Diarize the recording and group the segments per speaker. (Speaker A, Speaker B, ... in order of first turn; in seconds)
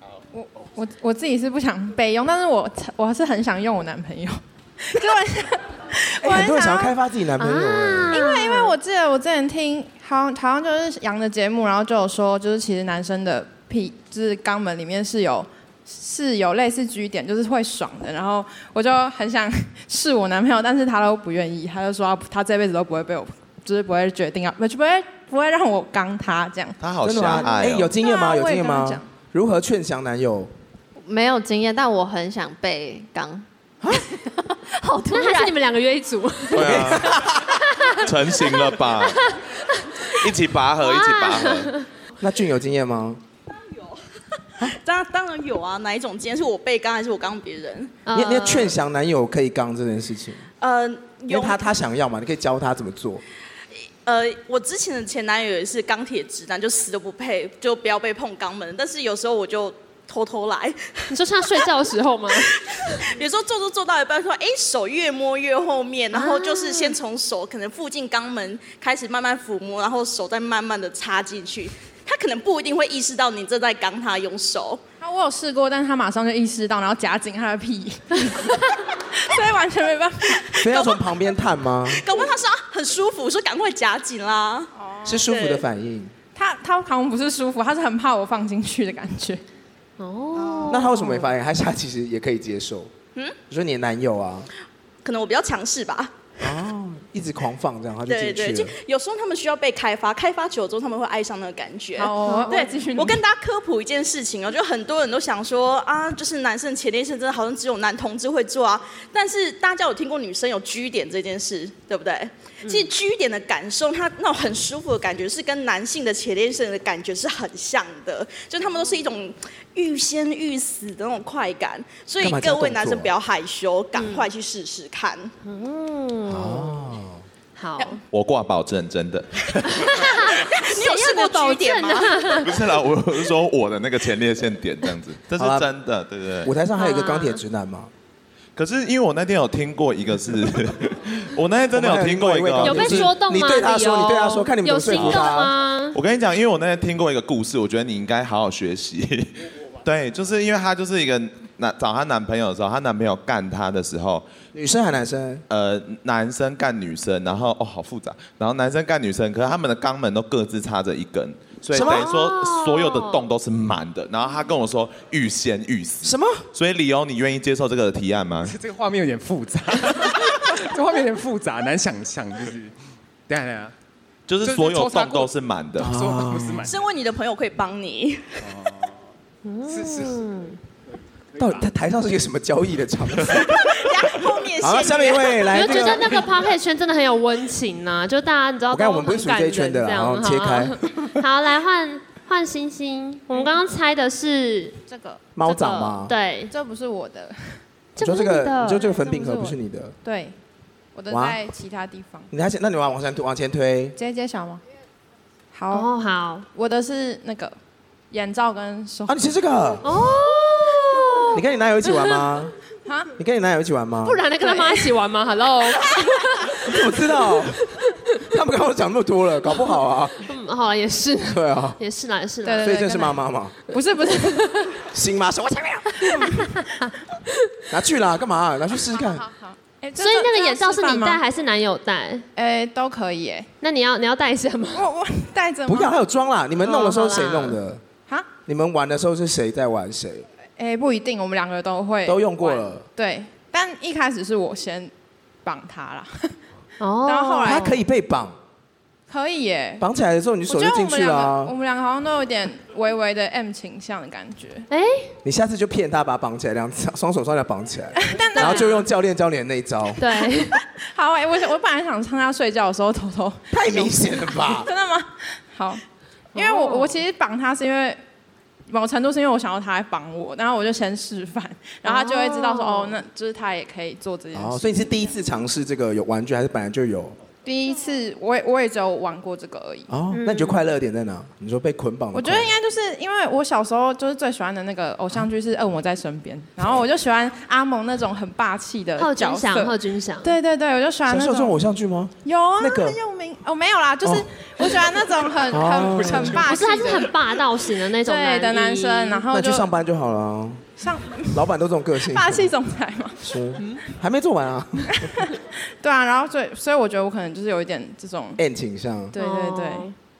Speaker A: 0.3-6.9, 8.1-26.8, 27.9-29.1, 75.0-80.4, 84.8-85.2, 86.3-89.4, 90.3-90.9, 102.0-103.2, 194.9-195.3, 196.5-197.6, 198.8-200.3, 200.9-202.3, 203.9-204.6, 205.5-205.9, 206.5-207.5, 208.1-209.2, 212.8-213.1, 214.4-214.9, 222.4-224.6, 226.2-226.4, 228.9-231.2, 232.3-233.5, 234.7-235.9, 240.6-244.9, 245.4-246.3, 247.0-247.8, 249.1-249.8, 250.5-254.7, 257.9-258.8, 260.9-265.8, 266.3-268.0, 268.7-275.1, 277.4-279.9, 282.1-291.6, 292.2-297.2, 298.0-299.7, 300.8-301.4, 302.1-303.2, 304.9-308.4, 309.1-309.9
Speaker B: 6.2-8.2, 27.0-30.5, 36.5-37.5, 42.2-43.2, 48.1-50.5, 51.3-53.2, 80.6-82.0, 85.0-86.1, 90.7-92.9, 93.5-94.5, 96.4-98.7, 122.2-123.1, 126.3-127.2, 135.4-135.7, 136.4-137.9, 141.7-145.5, 154.5-155.4, 161.7-162.1, 166.0-166.4, 175.8-176.7, 181.4-183.9, 184.6-186.3, 188.7-191.2, 195.3-196.1, 198.0-199.9, 201.1-201.4, 202.3-203.9, 209.1-209.9, 211.3-212.5, 213.2-214.2, 216.4-217.7, 218.2-220.3, 221.2-221.8, 222.6-223.6, 224.9-226.3, 227.7-229.3, 235.7-237.8, 238.4-240.2, 242.1-242.8, 247.4-248.4, 249.8-251.5, 255.2-260.1, 263.5-264.7, 274.3-277.2, 279.9-282.5, 291.1-293.0, 294.0-294.7, 295.5-296.5, 299.3-300.6, 301.3-302.5, 303.2-305.1, 308.4-309.1
Speaker C: 7.4-8.7, 35.1-37.1, 37.7-38.0, 39.0-40.2, 40.8-41.9, 48.0-48.8, 61.1-62.9, 66.1-66.9, 90.0-91.2, 123.9-124.2, 125.4-126.7, 127.5-128.0, 129.6-132.6, 136.8-137.4, 142.6-146.0, 161.7-163.2, 179.4-180.6, 185.5-194.8, 195.4-196.5, 197.9-198.9, 205.7-206.4, 209.8-212.2, 214.0-218.0, 220.2-222.7, 224.3-224.7, 226.1-226.9, 230.0-232.2, 233.6-234.8, 236.6-237.6, 246.8-247.8, 254.7-255.1, 258.3-258.8, 260.0-260.6, 266.3-267.0, 271.8-272.9, 280.1-280.6, 289.0-290.3, 296.4-299.2, 309.1-309.9
Speaker D: 26.8-27.9, 36.5-37.4, 37.9-39.3, 40.0-41.7, 128.1-130.2, 132.4-136.5, 138.6-143.1, 144.9-154.3, 155.5-168.6, 174.3-175.9
Speaker E: 31.1-33.4, 34.1-35.5
Speaker F: 43.5-44.0, 44.6-48.0, 50.6-51.6, 54.0-61.6, 62.3-74.8, 80.3-81.1, 81.9-84.7, 85.2-85.7, 95.0-96.1, 98.0-125.3, 130.3-132.4, 176.7-178.4, 183.3-186.2
Speaker G: 168.4-172.7, 173.3-173.7, 174.4-176.8, 178.4-178.9, 179.7-180.2, 181.3-181.7